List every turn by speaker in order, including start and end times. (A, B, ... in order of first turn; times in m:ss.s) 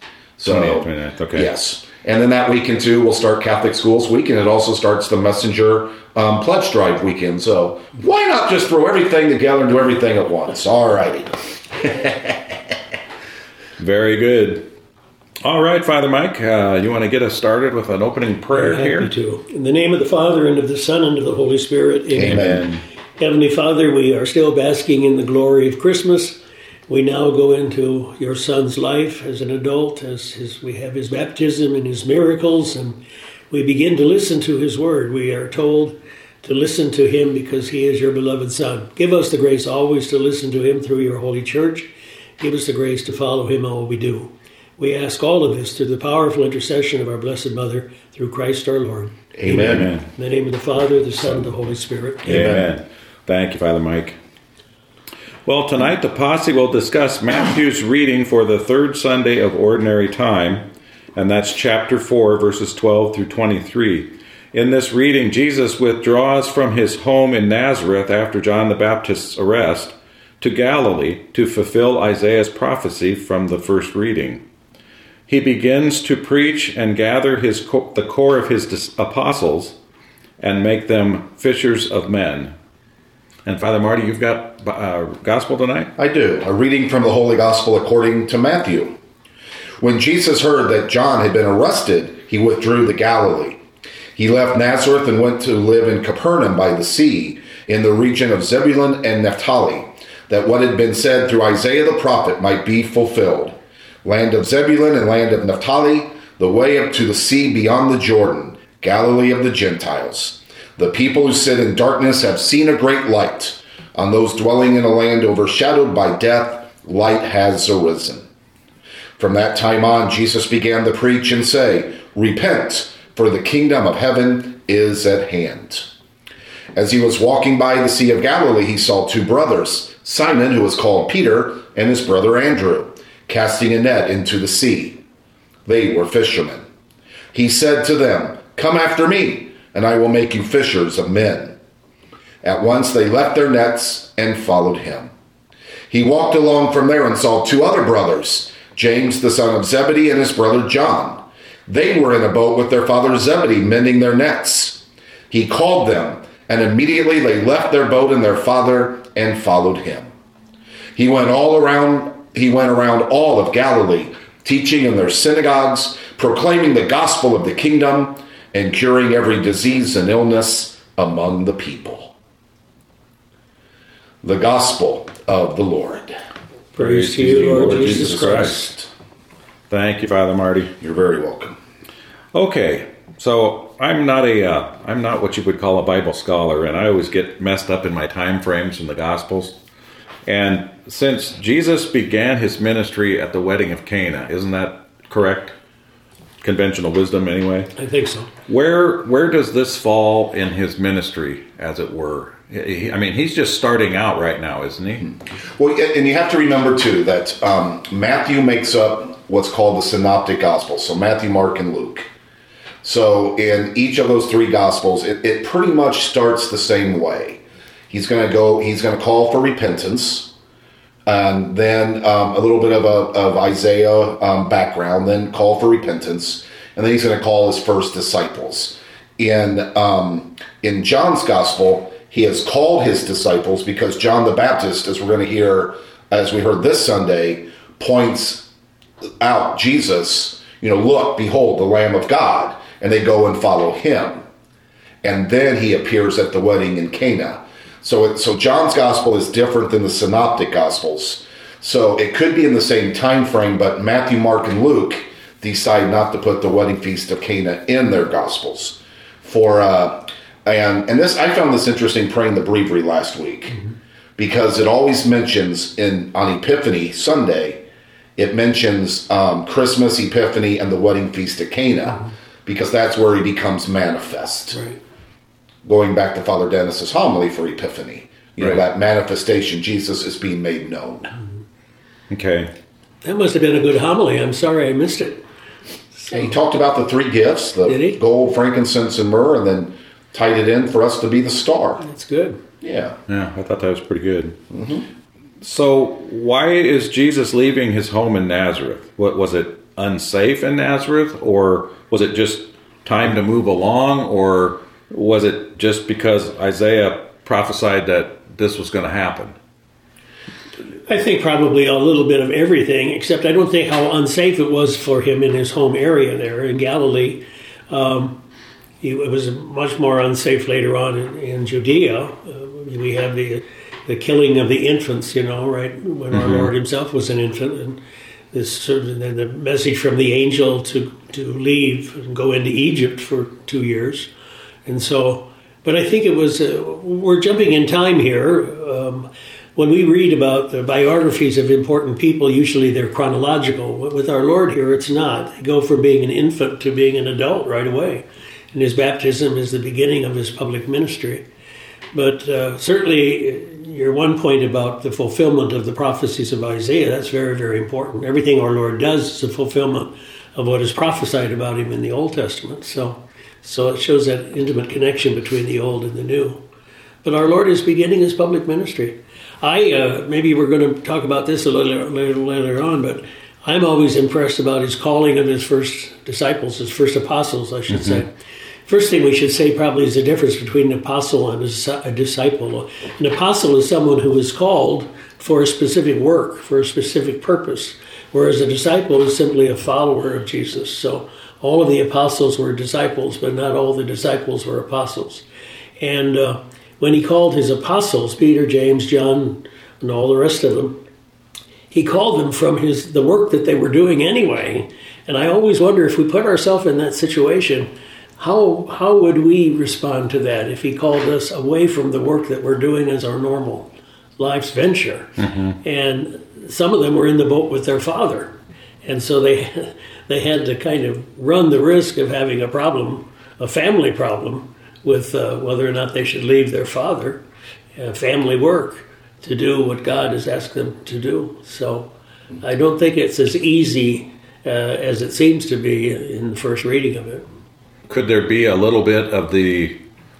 0:00.4-0:12.6 A
0:00.5-0:01.5 B
0:13.8-0:14.7 B
0:15.4-0:19.1 B
0:18.5-0:22.6 C
0:22.1-0:22.7 A
0:22.2-0:22.8 B
0:23.2-0:33.0 C
0:33.5-0:52.6 C
0:49.3-0:49.9 A
0:49.5-0:50.1 B
0:52.2-0:54.2 B
0:52.3-0:52.7 A
0:55.5-1:14.4 B
1:15.3-1:19.8 B
1:20.4-1:22.5 B
1:23.4-1:25.9 B
1:26.0-1:29.0 A
1:29.8-1:33.6 A
1:34.2-1:58.3 A
1:59.2-2:05.9 A
2:06.7-2:15.0 A
2:15.7-2:16.6 A
2:17.3-2:21.6 A
2:22.4-2:25.1 A
2:25.9-2:40.1 A
2:41.0-2:52.1 A
2:54.2-2:56.2 A
2:56.8-2:58.8 C
2:56.8-2:58.6 B
2:57.2-2:58.9 A
2:59.7-3:00.7 B
3:00.8-3:01.6 A
3:02.3-3:09.6 B
3:10.3-3:15.6 B
3:16.4-3:17.7 B
3:17.8-3:18.3 C
3:18.5-3:25.1 B
3:25.0-3:32.1 A
3:32.8-3:40.3 A
3:41.1-3:58.5 A
3:59.2-4:04.2 A
4:05.0-4:23.6 A
4:24.2-4:27.6 A
4:28.2-4:34.6 A
4:34.5-4:34.8 C
4:35.6-4:41.2 A
4:42.1-4:42.5 B
4:43.0-4:45.2 C
4:45.9-4:46.3 C
4:46.1-4:51.8 A
4:47.6-4:48.0 C
4:51.8-4:52.4 C
4:52.6-4:53.0 A
4:53.1-4:54.4 B
4:54.5-4:54.9 A
4:55.4-5:09.4 B
5:10.9-5:18.2 C
5:18.8-5:27.8 C
5:26.1-5:26.5 B
5:28.3-5:34.1 C
5:34.7-5:51.2 C
5:51.9-6:06.4 C
6:07.0-6:18.1 C
6:17.7-6:18.0 B
6:18.7-6:35.2 C
6:35.8-6:40.8 C
6:41.7-7:07.2 C
6:55.2-6:55.6 B
7:07.8-7:11.9 C
7:12.4-7:17.3 C
7:17.9-7:19.8 B